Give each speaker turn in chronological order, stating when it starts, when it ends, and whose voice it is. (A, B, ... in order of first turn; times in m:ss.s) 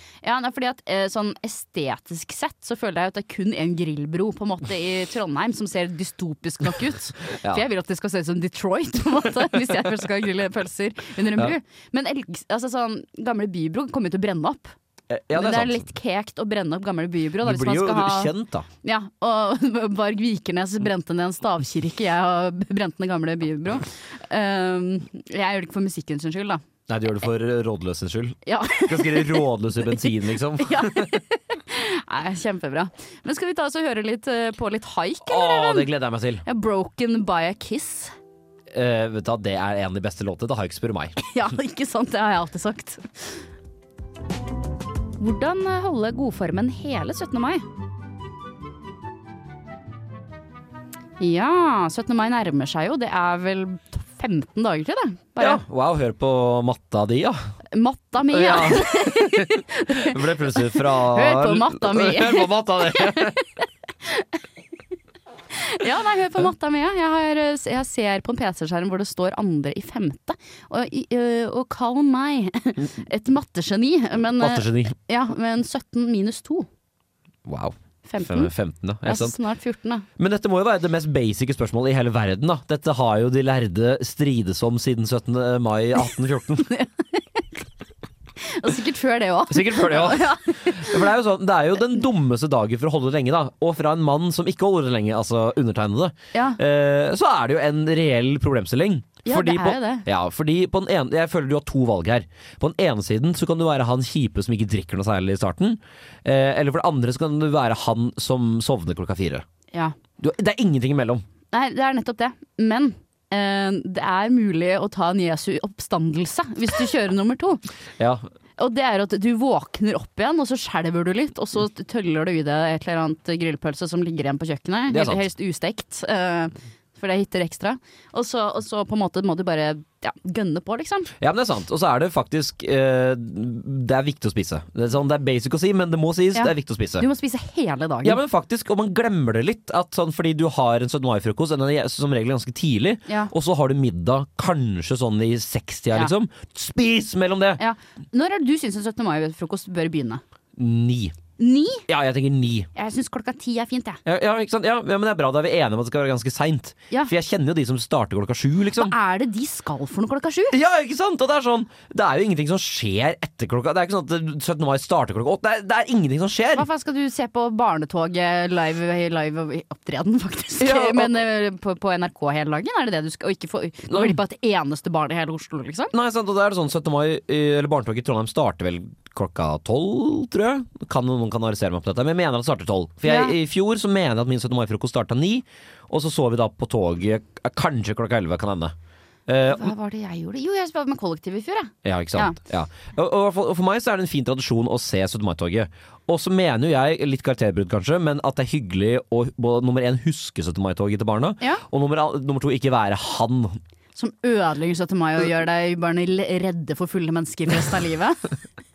0:00.2-0:14.7 A
0:15.1-0:15.9 B
0:15.3-0:26.6 A
0:17.4-0:18.7 B
0:26.9-0:31.1 B
0:28.4-0:35.9 A
0:35.2-0:36.4 B
0:36.4-0:38.1 A
0:38.7-0:41.2 B
0:41.2-0:43.4 A
0:45.2-0:47.6 A
0:51.2-0:55.6 A
0:55.4-0:57.5 B
0:57.7-1:04.3 A
0:58.3-1:03.4 B
1:05.5-1:16.7 A
1:14.4-1:14.9 B
1:17.4-1:19.4 B
1:18.0-1:18.5 A
1:19.0-1:20.0 A
1:20.2-1:26.7 B
1:26.6-1:27.4 A
1:28.4-1:31.0 A
1:29.5-1:49.4 B
1:36.3-1:36.6 A
1:39.2-1:40.0 A
1:50.2-1:51.2 B
1:51.5-1:57.6 A
1:58.0-1:58.2 B
1:58.6-2:11.1 A
2:04.9-2:05.2 B
2:11.2-2:17.1 B
2:16.3-2:18.2 A
2:18.0-2:27.6 B
2:23.1-2:23.3 A
2:27.6-2:30.2 A
2:30.6-2:31.2 B
2:31.4-2:31.8 A
2:31.9-2:32.7 B
2:32.7-2:34.0 A
2:34.0-2:38.9 B
2:38.7-2:40.6 A
2:40.5-2:46.7 B
2:46.5-2:55.9 A
2:50.6-2:51.2 B
2:53.9-2:54.2 B
2:55.9-3:08.7 B
3:03.0-3:03.3 A
3:09.3-3:09.7 B
3:09.4-3:12.4 A
3:11.8-3:23.6 B
3:24.0-3:28.3 A